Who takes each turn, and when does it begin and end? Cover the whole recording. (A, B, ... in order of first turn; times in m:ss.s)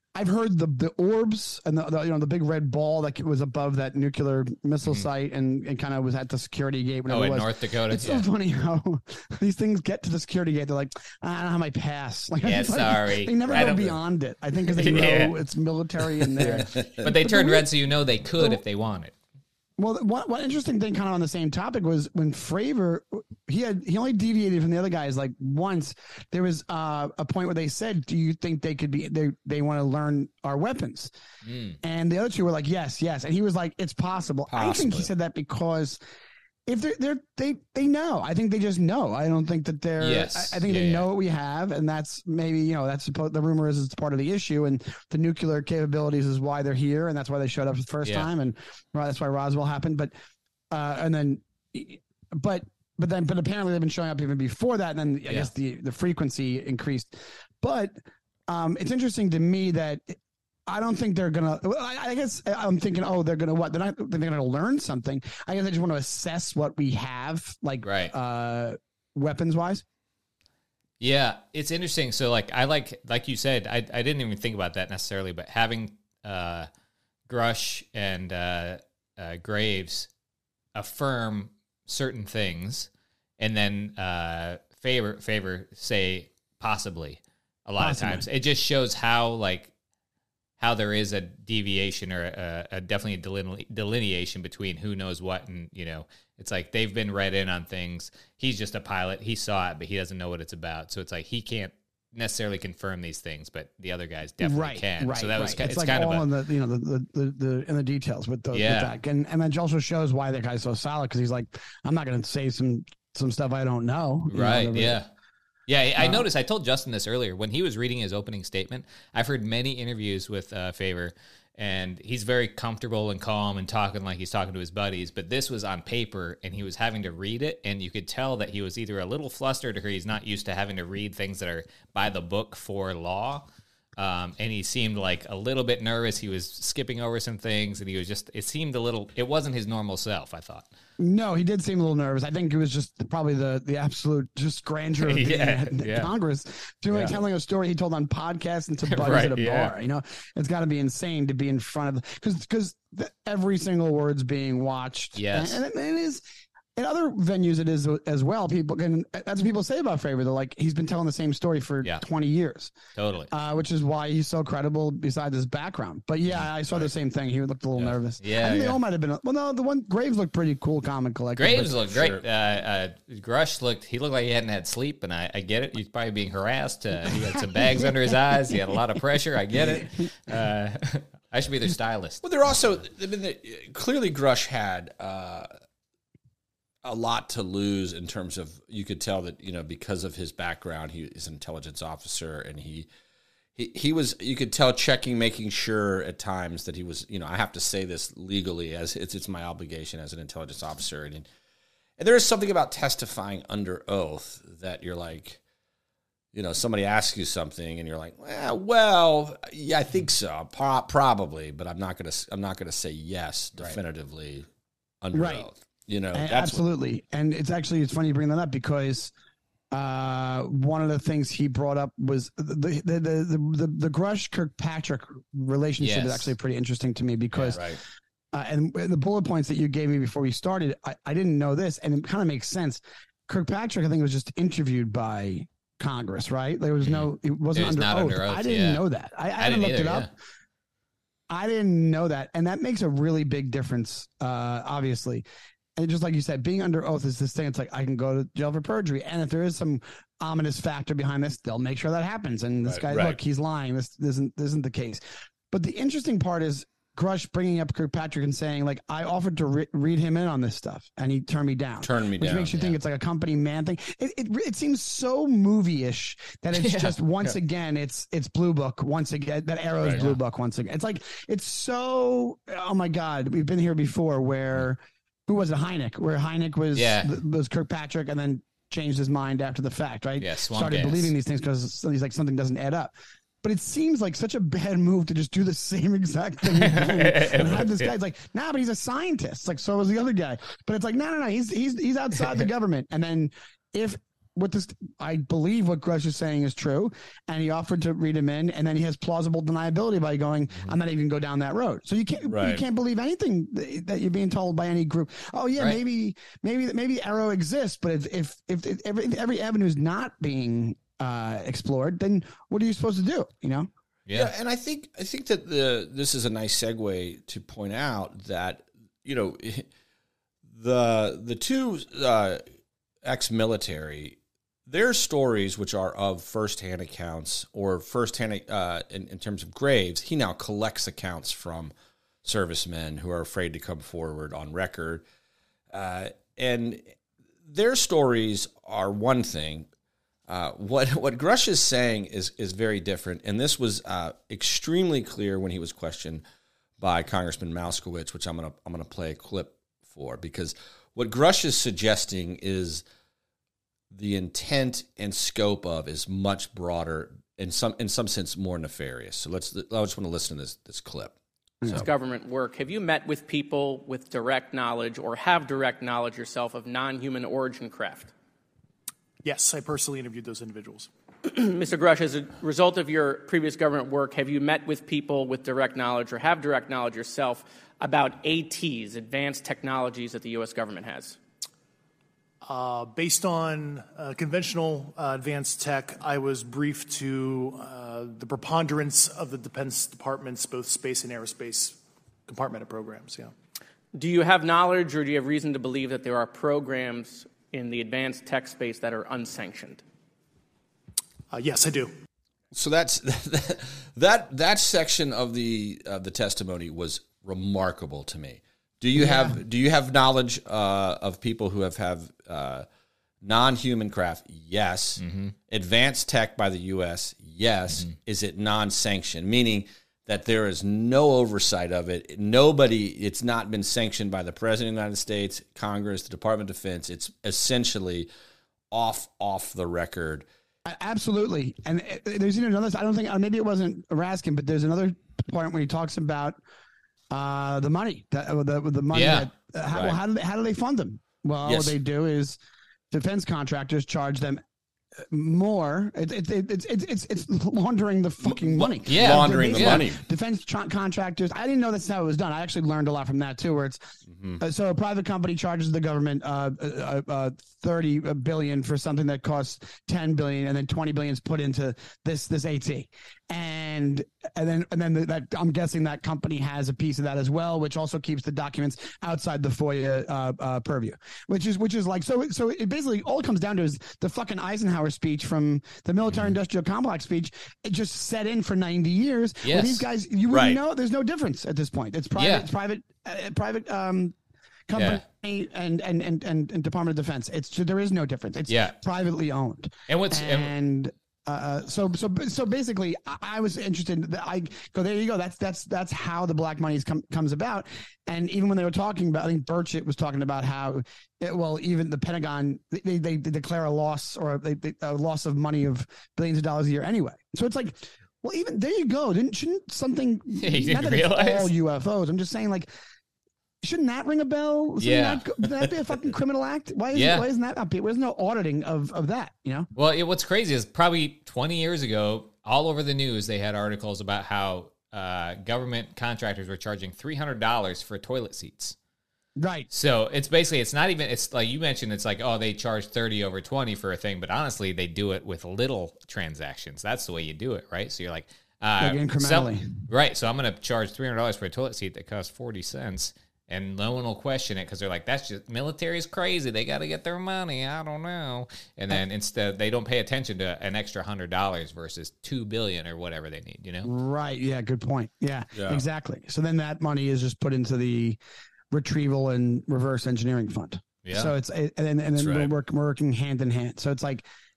0:00.1-0:17.6 A
0:07.1-0:08.3 B
0:12.4-0:14.0 B
0:14.6-0:15.4 B
0:16.0-0:19.1 B
0:16.4-0:17.1 C
0:19.8-0:31.1 A
0:31.4-0:31.8 B
0:31.8-0:36.0 A
0:34.5-0:35.1 C
0:36.7-0:50.1 A
0:40.0-0:41.1 B
0:50.7-0:58.0 A
0:58.5-1:09.8 A
1:07.8-1:08.1 B
1:11.0-1:16.7 B
1:17.3-1:20.1 B
1:20.7-1:29.7 B
1:27.8-1:28.2 A
1:30.6-1:46.3 B
1:44.4-1:55.0 A
1:48.5-1:48.9 B
1:54.3-1:55.1 B
1:55.7-2:20.7 B
1:56.0-1:56.2 A
2:21.0-2:36.2 A
2:25.0-2:26.1 B
2:26.9-2:27.2 B
2:28.9-2:29.7 B
2:35.1-2:35.6 B
2:36.8-2:42.7 A
2:42.9-2:43.3 B
2:43.3-2:51.7 A
2:46.3-2:46.8 B
2:47.8-2:48.8 B
2:51.4-3:02.7 B
2:51.8-2:52.2 C
3:02.2-3:05.5 C
3:06.8-3:12.9 C
3:13.6-3:21.3 C
3:22.0-3:25.4 C
3:26.3-3:34.5 C
3:35.0-3:36.6 C
3:35.1-3:35.4 A
3:36.1-3:39.1 A
3:39.7-3:47.6 A
3:45.8-3:46.3 B
3:47.3-3:47.6 B
3:47.5-3:47.8 C
3:48.3-4:00.1 A
3:56.8-3:58.8 B
3:59.4-4:00.1 B
4:01.3-4:05.2 A
4:05.8-5:13.7 A
4:12.6-4:13.2 C
4:21.8-4:22.5 C
4:26.5-4:27.3 B
4:36.7-4:37.2 B
4:40.2-4:41.1 B
4:46.4-4:47.9 B
5:02.3-5:02.6 C
5:14.1-5:14.3 B
5:14.1-5:19.7 C
5:20.4-5:22.4 C
5:23.0-5:35.0 C
5:35.7-5:36.9 C
5:37.4-5:39.7 C
5:40.3-5:46.2 C
5:46.8-5:52.8 C
5:53.9-6:01.1 C
6:01.7-6:08.1 D
6:09.2-6:10.9 E
6:11.3-6:21.2 D
6:22.4-6:33.3 E
6:33.9-6:39.8 D
6:41.3-6:41.9 E
6:42.5-6:52.7 C
6:49.0-6:49.4 A
6:53.2-7:08.1 C
6:55.0-6:55.3 B
7:08.7-7:10.2 C
7:10.6-7:16.4 A
7:17.1-7:22.4 A
7:18.9-7:19.3 B
7:19.7-7:20.0 C
7:21.4-7:21.7 C
7:22.9-7:24.4 A
7:25.1-8:04.1 A
7:28.2-7:30.0 C
7:28.9-7:29.9 B
7:34.1-7:34.4 C
7:59.4-7:59.8 B
8:00.3-8:00.6 C
8:02.2-8:02.5 B
8:04.7-8:32.7 A
8:04.7-8:05.0 B
8:08.5-8:08.8 B
8:09.9-8:10.5 B
8:30.4-8:31.5 B
8:33.6-8:39.7 A
8:34.8-8:35.6 B
8:36.9-8:37.2 B
8:39.7-8:48.8 B
8:49.4-8:49.7 A
8:49.7-9:13.9 B
8:58.8-8:59.9 A
9:13.8-9:18.2 A
9:15.5-9:15.8 C
9:18.7-9:24.2 A
9:21.0-9:21.3 B
9:22.2-9:22.5 C